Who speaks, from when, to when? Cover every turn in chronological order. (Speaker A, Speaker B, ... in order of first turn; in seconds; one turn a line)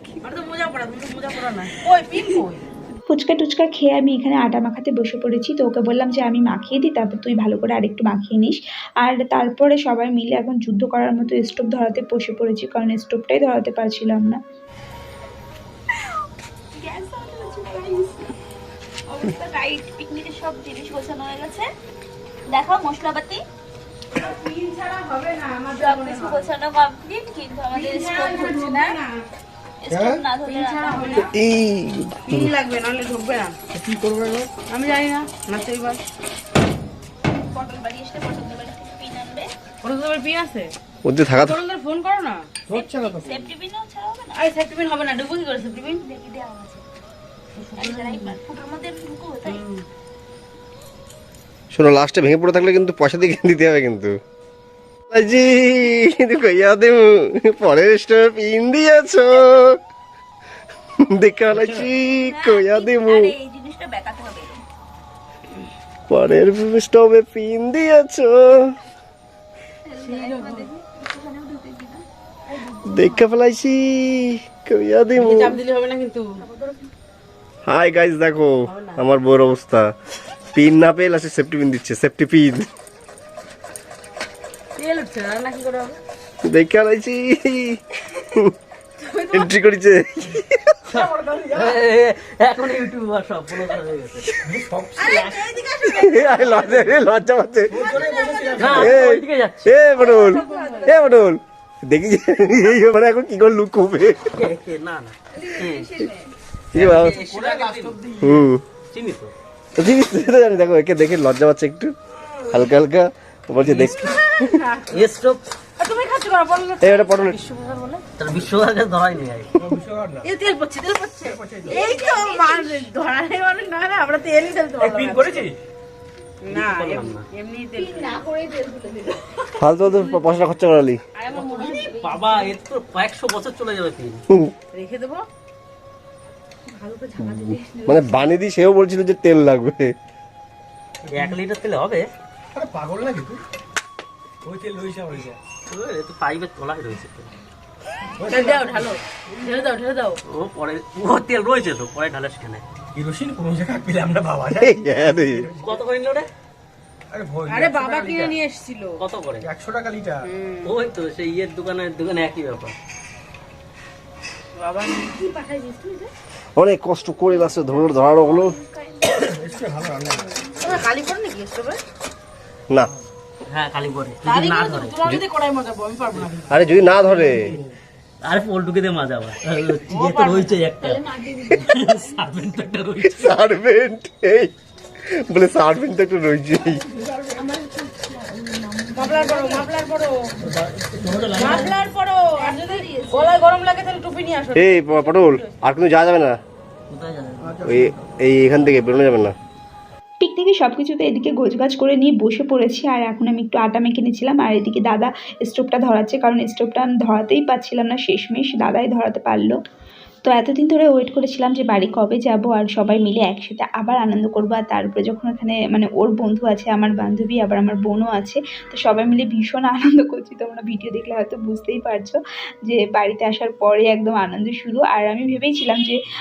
Speaker A: 0.2-2.6
Speaker B: 3.1-14.4
Speaker C: 16.8-18.3
Speaker C: 19.1-21.7
Speaker C: 22.5-23.4
Speaker A: 24.1-26.5
Speaker C: 25.7-29.0
Speaker A: 27.7-29.2
Speaker C: 29.8-31.3
Speaker D: 29.9-30.2
Speaker A: 30.3-31.3
Speaker E: 31.1-32.5
Speaker A: 32.2-33.6
Speaker D: 33.7-34.5
Speaker A: 34.6-36.0
Speaker C: 37.5-39.5
Speaker A: 39.8-40.7
Speaker E: 41.0-41.6
Speaker A: 41.3-42.5
Speaker D: 42.7-43.5
Speaker C: 43.0-44.4
Speaker A: 44.3-46.0
Speaker C: 45.9-46.8
Speaker A: 47.6-48.4
Speaker C: 47.7-49.6
Speaker A: 49.4-49.8
Speaker E: 51.7-54.1
Speaker E: 55.1-59.8
Speaker E: 61.0-63.3
Speaker F: 61.5-61.8
Speaker C: 62.2-64.6
Speaker E: 66.1-68.7
Speaker C: 69.8-72.0
Speaker A: 70.0-70.7
Speaker C: 72.7-73.2
Speaker E: 72.8-75.6
Speaker A: 75.2-76.4
Speaker E: 77.7-79.9
Speaker A: 78.7-79.0
Speaker E: 80.5-82.7
Speaker A: 84.8-86.0
Speaker E: 86.5-88.5
Speaker A: 89.0-89.5
Speaker E: 89.3-90.7
Speaker D: 90.9-91.8
Speaker F: 90.9-94.3
Speaker D: 94.4-95.5
Speaker A: 95.0-96.8
Speaker E: 95.8-98.0
Speaker D: 97.7-99.0
Speaker F: 98.5-99.8
Speaker E: 98.6-104.3
Speaker C: 100.0-101.0
Speaker A: 100.1-100.9
Speaker F: 104.3-105.9
Speaker C: 105.4-106.3
Speaker E: 106.7-107.2
Speaker F: 106.7-108.0
Speaker D: 107.1-108.5
Speaker E: 108.2-108.6
Speaker F: 108.9-109.3
Speaker E: 109.8-111.9
Speaker E: 112.5-114.6
Speaker F: 113.6-114.1
Speaker A: 114.3-114.9
Speaker F: 114.9-115.4
Speaker A: 115.8-118.0
Speaker E: 116.8-117.4
Speaker F: 118.2-119.5
Speaker D: 119.6-120.3
Speaker A: 120.2-125.4
Speaker D: 121.2-121.8
Speaker C: 121.6-122.9
Speaker D: 124.8-125.5
Speaker A: 126.4-128.2
Speaker F: 126.5-127.2
Speaker C: 127.7-129.3
Speaker E: 129.6-131.0
Speaker A: 131.2-132.0
Speaker F: 131.3-134.2
Speaker C: 131.8-132.5
Speaker A: 134.7-135.2
Speaker A: 136.7-138.2
Speaker E: 137.2-139.9
Speaker D: 141.1-141.3
Speaker F: 141.1-142.1
Speaker D: 142.5-143.4
Speaker D: 144.4-145.4
Speaker F: 145.7-147.3
Speaker D: 148.2-149.6
Speaker A: 148.2-150.2
Speaker F: 150.3-152.6
Speaker D: 152.9-155.8
Speaker E: 154.6-155.5
Speaker F: 155.6-156.3
Speaker D: 157.1-158.4
Speaker A: 157.4-159.0
Speaker F: 159.0-159.5
Speaker D: 159.4-160.3
Speaker A: 160.2-160.8
Speaker F: 160.6-162.8
Speaker A: 164.6-166.1
Speaker E: 166.6-168.5
Speaker C: 167.3-169.5
Speaker D: 169.2-170.4
Speaker A: 170.6-171.8
Speaker F: 173.5-175.0
Speaker A: 174.2-176.7
Speaker E: 176.5-177.6
Speaker D: 177.1-177.7
Speaker F: 178.2-183.5
Speaker A: 179.9-180.7
Speaker C: 180.8-181.7
Speaker E: 183.0-184.5
Speaker E: 185.1-186.8
Speaker D: 187.0-187.3
Speaker C: 187.3-189.7
Speaker A: 188.9-190.3
Speaker F: 190.4-191.7
Speaker D: 191.0-191.3
Speaker A: 191.3-195.5
Speaker C: 191.4-191.7
Speaker C: 192.4-193.4
Speaker E: 194.5-196.4
Speaker F: 196.9-197.6
Speaker D: 197.4-197.9
Speaker E: 197.6-199.3
Speaker B: 200.2-209.6
Speaker B: 210.2-226.0